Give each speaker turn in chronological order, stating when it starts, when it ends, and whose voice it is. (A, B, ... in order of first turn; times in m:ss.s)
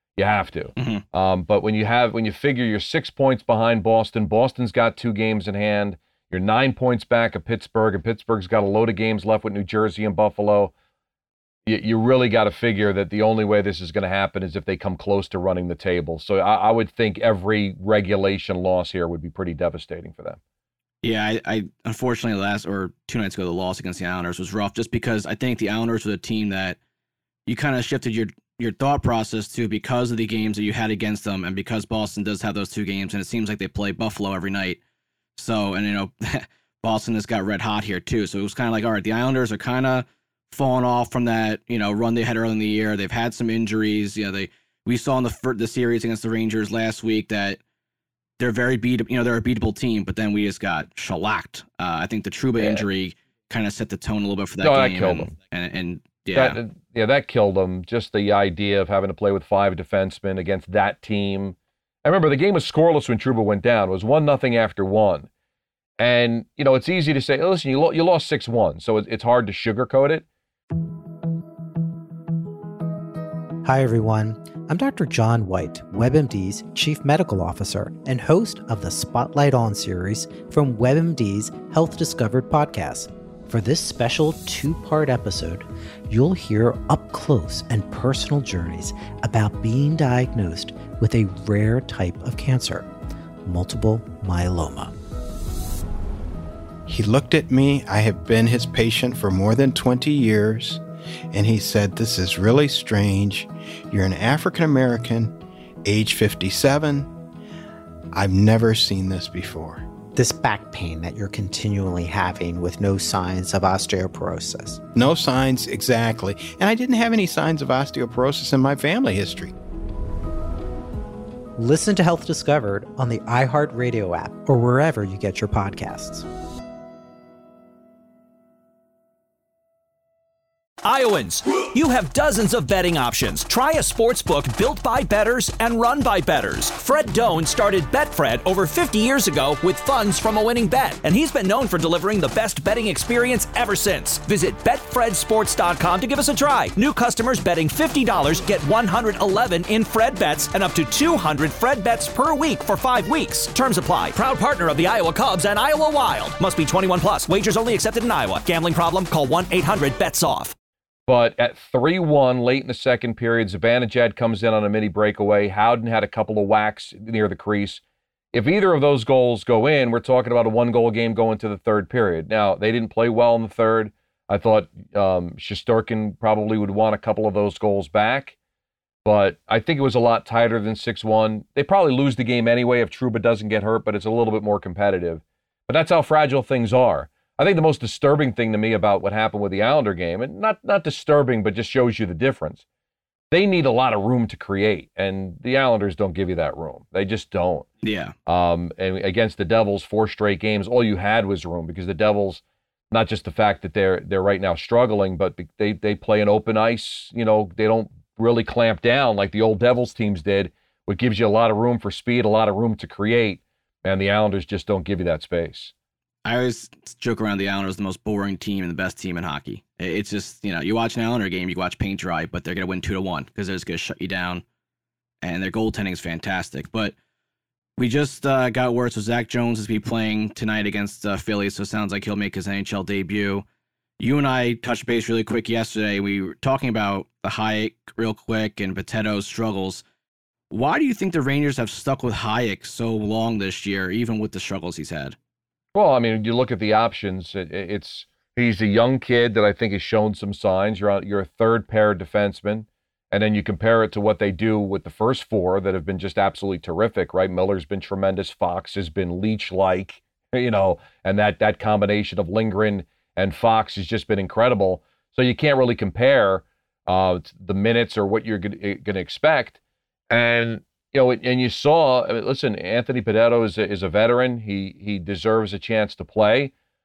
0:00.2-0:10.7 A
0:00.8-0:01.0 B
0:11.6-0:20.4 A
0:21.0-0:26.8 B
0:27.5-0:34.8 B
0:35.4-0:47.6 B
0:48.4-0:56.6 B
0:52.6-0:52.8 A
0:54.6-0:55.4 A
0:56.3-1:05.3 A
1:06.0-1:10.2 A
1:13.6-1:32.9 C
1:33.4-1:34.9 C
1:36.8-1:40.8 D
1:41.3-1:45.3 D
1:45.8-1:47.1 D
1:48.1-1:49.8 D
1:50.1-1:54.8 C
1:54.9-1:59.5 D
2:01.6-2:06.2 C
2:10.8-2:40.5 E
2:41.1-2:47.8 A
2:48.3-2:58.3 A
2:59.0-3:12.6 A
3:13.3-3:17.7 A
3:17.8-3:18.1 B
3:18.2-3:35.7 A
3:36.2-3:44.4 B
3:45.2-3:46.9 B
3:47.8-3:53.4 B
3:54.0-3:59.8 B
4:00.5-4:05.2 B
4:05.7-4:29.6 A
4:30.1-4:36.5 A